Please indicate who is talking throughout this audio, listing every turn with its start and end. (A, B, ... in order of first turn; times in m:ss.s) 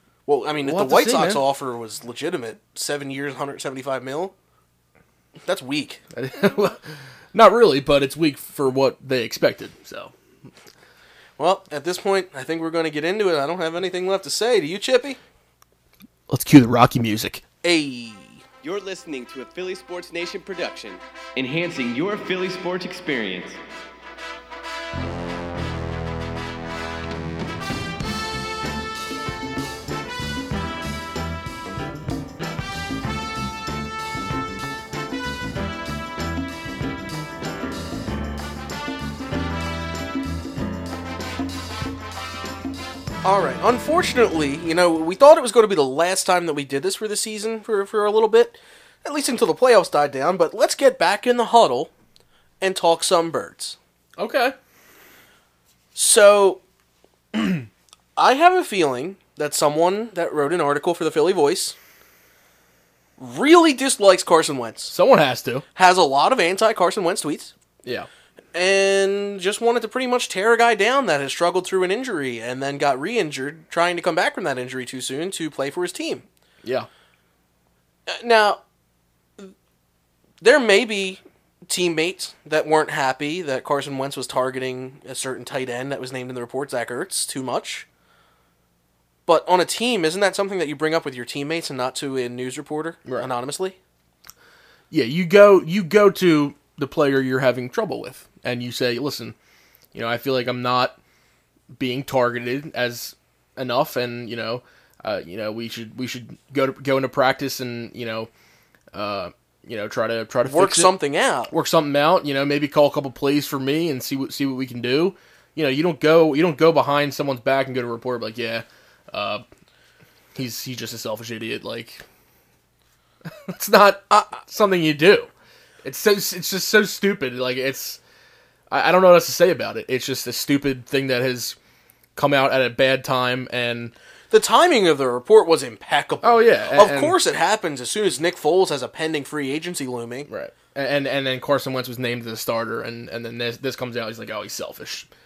0:00.3-0:04.3 A
0:00.6-0:01.4 B
0:05.5-0:06.0 A
0:06.1-0:10.1 B
0:11.4-0:15.2 A
0:16.3-0:17.4 B
0:17.6-0:18.4 A
0:18.6-0:23.6 C
0:43.2-0:51.9 A
0:52.6-0:53.8 A
0:54.2-0:54.6 B
0:56.0-0:56.6 A
0:58.2-1:01.8 A
1:03.2-1:04.9 A
1:04.9-1:05.6 B
1:05.8-1:07.5 A
1:08.5-1:16.2 A
1:16.6-1:16.9 B
1:18.1-1:18.6 A
1:20.4-1:27.9 A
1:29.3-1:33.8 A
1:34.9-1:39.4 B
1:39.9-1:41.0 B
1:41.8-1:48.3 B
1:48.9-1:50.9 B
1:50.4-1:51.5 A
1:51.5-1:59.4 B
2:00.4-2:02.0 B
2:03.3-2:05.3 B
2:05.8-2:08.0 B
2:08.7-2:11.6 B
2:12.2-2:13.9 B
2:14.3-2:20.3 A
2:16.2-2:17.2 B
2:20.3-2:25.1 B